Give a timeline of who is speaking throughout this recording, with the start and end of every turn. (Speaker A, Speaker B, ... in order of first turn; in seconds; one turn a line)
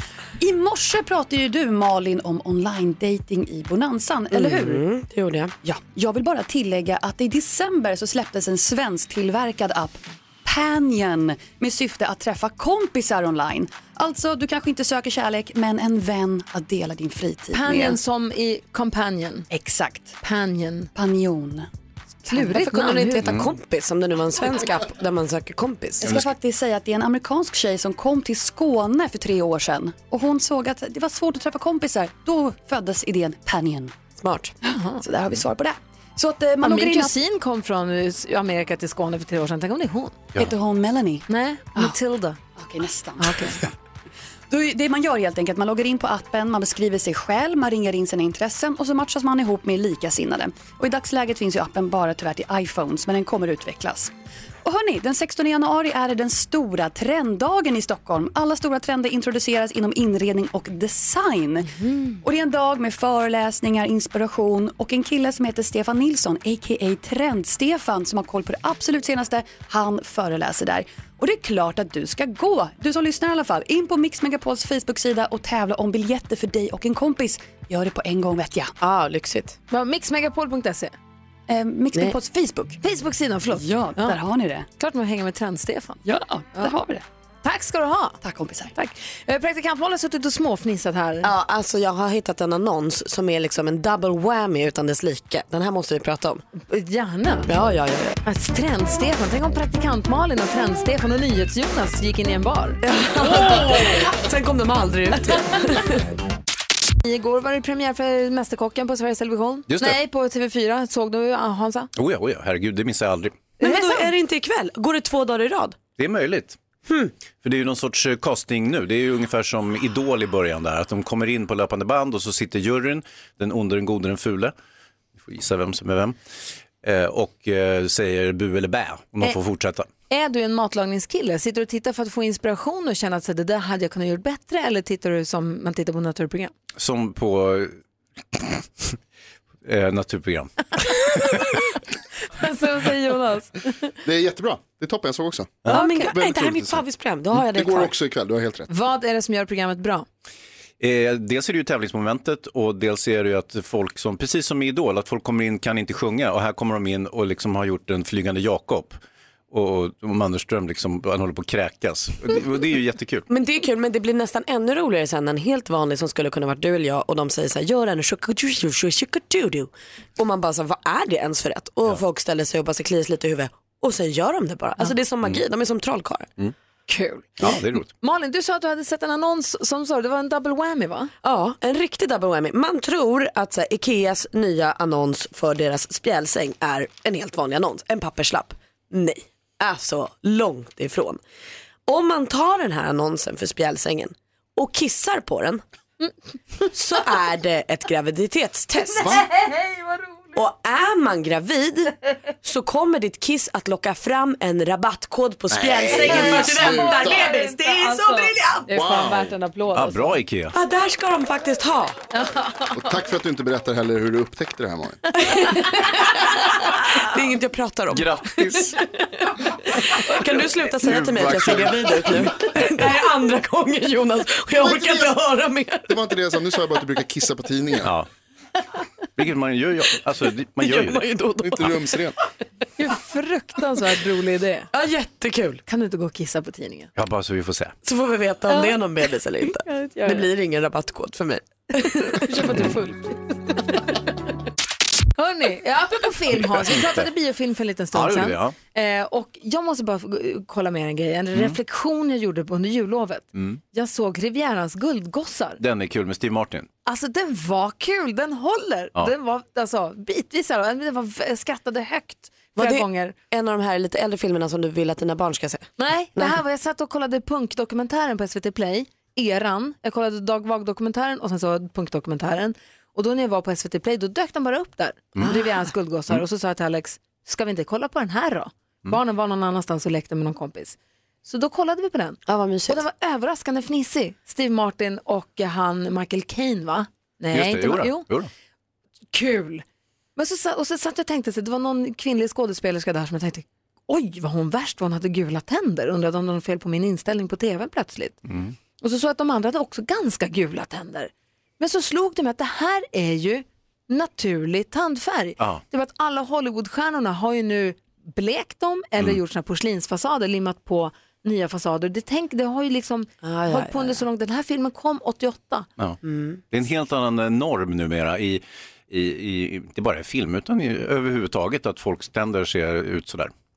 Speaker A: 0.4-4.8
Speaker B: 4.3-5.5
Speaker A: 5.6-18.0
Speaker C: 17.5-19.5
Speaker A: 19.5-20.2
Speaker C: 20.2-20.9
Speaker A: 20.9-21.7
Speaker C: 22.3-23.2
Speaker B: 22.3-26.2
Speaker D: 23.2-23.5
Speaker A: 26.0-33.9
Speaker B: 34.2-34.5
Speaker C: 34.7-35.0
Speaker A: 35.0-37.1
Speaker C: 36.6-40.3
Speaker A: 40.4-43.6
Speaker C: 41.3-42.4
Speaker C: 43.2-43.6
Speaker A: 44.5-54.1
Speaker A: 54.6-78.7
Speaker C: 61.8-62.1
Speaker B: 78.8-79.6
Speaker C: 79.7-80.9
Speaker A: 81.5-82.8
Speaker C: 82.8-84.2
Speaker A: 83.5-84.7
Speaker C: 84.8-86.0
Speaker A: 86.0-87.0
Speaker C: 87.4-88.2
Speaker A: 88.2-88.7
Speaker C: 88.7-91.3
Speaker B: 91.2-96.4
Speaker C: 96.7-97.5
Speaker B: 97.5-98.2
Speaker C: 98.2-103.7
Speaker B: 102.8-106.1
Speaker C: 107.0-111.9
Speaker D: 109.7-110.0
Speaker D: 111.9-113.4
Speaker C: 113.6-114.1
Speaker B: 113.6-115.8
Speaker D: 116.0-116.6
Speaker B: 116.9-117.1
Speaker D: 117.4-124.5
Speaker D: 125.2-126.2
Speaker D: 126.8-129.9
Speaker C: 130.1-136.5
Speaker D: 136.8-137.8
Speaker D: 138.3-138.9
Speaker D: 139.6-140.5
Speaker D: 141.1-141.4
Speaker C: 142.3-143.9
Speaker E: 144.0-146.8
Speaker B: 145.7-147.9
Speaker C: 145.7-146.1
Speaker E: 147.4-148.7
Speaker C: 148.7-150.1
Speaker D: 150.8-159.0
Speaker D: 159.5-163.3
Speaker B: 163.3-176.3
Speaker C: 176.9-181.1
Speaker D: 177.4-177.9
Speaker B: 181.2-191.2
Speaker B: 191.9-195.6
Speaker B: 196.6-199.2
Speaker E: 198.9-199.2
Speaker C: 199.1-200.3
Speaker B: 200.3-208.7
Speaker E: 205.5-207.4
Speaker C: 205.9-210.2
Speaker E: 208.7-209.3
Speaker D: 209.7-210.5
Speaker B: 210.5-212.0
Speaker C: 212.1-212.9
Speaker E: 212.7-215.0
Speaker B: 215.1-218.7
Speaker C: 215.3-215.7
Speaker D: 217.9-218.8
Speaker B: 219.4-225.9
Speaker D: 220.7-222.8
Speaker E: 224.5-225.2
Speaker E: 225.9-227.9
Speaker D: 227.8-228.1
Speaker D: 229.2-231.0
Speaker B: 230.6-231.8
Speaker E: 231.4-232.1
Speaker C: 232.8-234.7
Speaker B: 234.7-235.6
Speaker C: 235.7-236.9
Speaker D: 236.9-237.7
Speaker B: 237.8-242.7
Speaker C: 238.5-238.8
Speaker C: 239.5-240.2
Speaker C: 241.9-243.8
Speaker C: 245.2-255.6
Speaker D: 246.3-247.1
Speaker D: 247.9-248.6
Speaker D: 251.3-251.6
Speaker D: 253.3-253.6
Speaker D: 255.6-256.7
Speaker C: 256.8-263.1
Speaker B: 262.6-266.4
Speaker C: 265.8-288.0
Speaker B: 282.2-282.8
Speaker D: 287.3-288.3
Speaker C: 289.1-289.6
Speaker C: 290.1-298.2
Speaker D: 298.2-298.6
Speaker C: 298.8-315.7
Speaker B: 313.2-314.0
Speaker B: 316.0-316.4
Speaker D: 316.5-323.3